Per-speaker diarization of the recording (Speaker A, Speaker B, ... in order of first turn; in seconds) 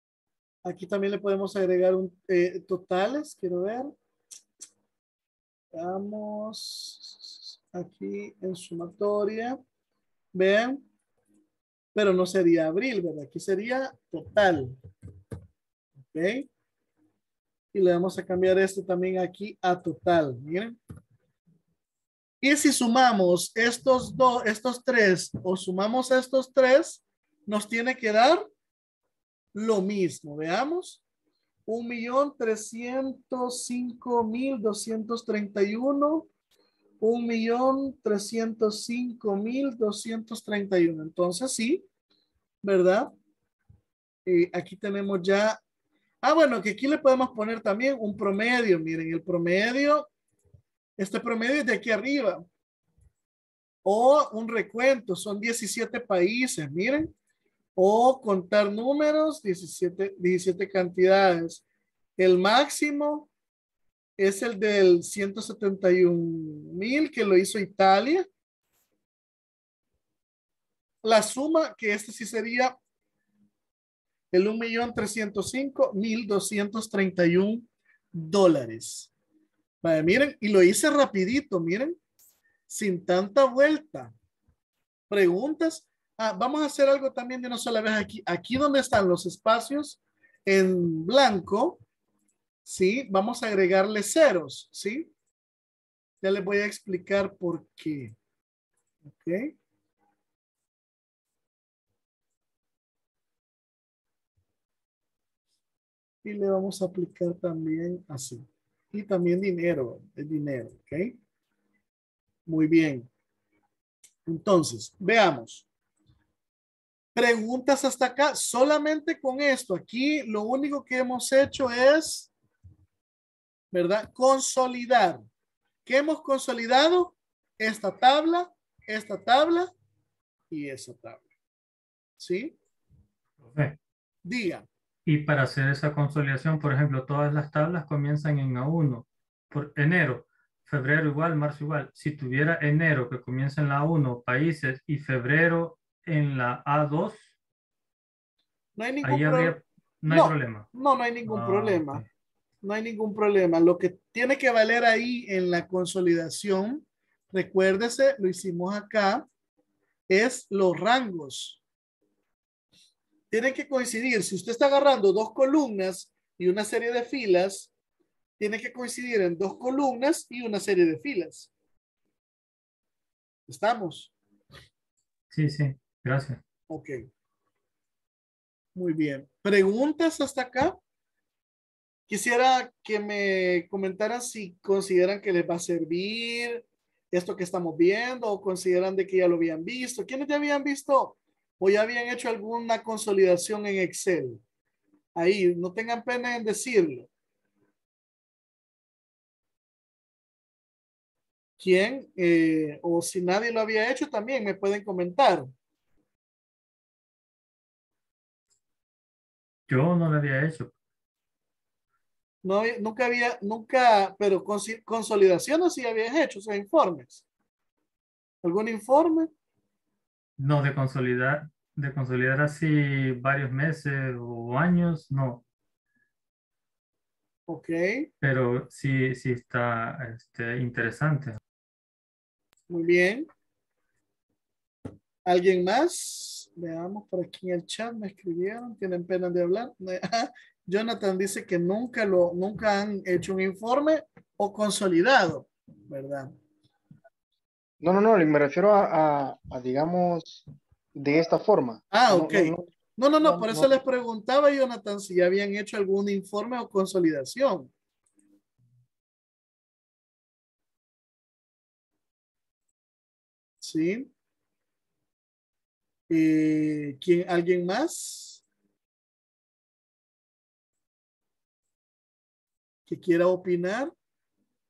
Speaker A: 0.6-3.9, 5.7-9.6, 10.3-10.8, 11.9-14.8, 16.0-16.5, 17.7-20.8, 22.4-28.4, 29.5-31.0, 31.7-36.3, 37.0-41.8, 42.6-43.1, 44.2-45.6, 46.2-50.1, 51.0-52.4, 53.9-57.1, 57.8-61.6, 62.2-63.3, 64.2-68.2, 71.0-72.7, 74.3-79.1, 79.8-82.0, 82.7-84.1, 85.1-91.8, 92.6-95.1, 96.2-98.1, 99.0-99.5, 106.2-111.2, 112.5-113.1, 114.2-115.7, 117.1-122.3, 123.7-125.2, 125.8-129.7, 130.5-131.2, 132.2-132.6, 134.2-134.7, 148.8-149.6, 150.1-152.0, 152.6-159.3, 160.1-161.6, 163.3-167.7, 168.4-171.5, 173.5-174.1, 176.7-177.0, 178.8-180.8, 182.1-194.4, 195.2-197.1, 201.6-205.5, 212.4-217.2, 218.4-219.3, 227.5-228.1, 232.7-233.3, 235.2-246.3, 251.9-257.7, 263.6-264.1, 266.1-268.4, 272.9-273.9
Speaker B: 133.4-133.8, 135.1-147.2, 149.0-150.7, 151.2-152.0, 175.3-176.4, 209.7-210.7, 220.4-225.4, 228.2-231.4
Speaker C: 247.8-250.4, 251.0-252.7, 253.2-253.8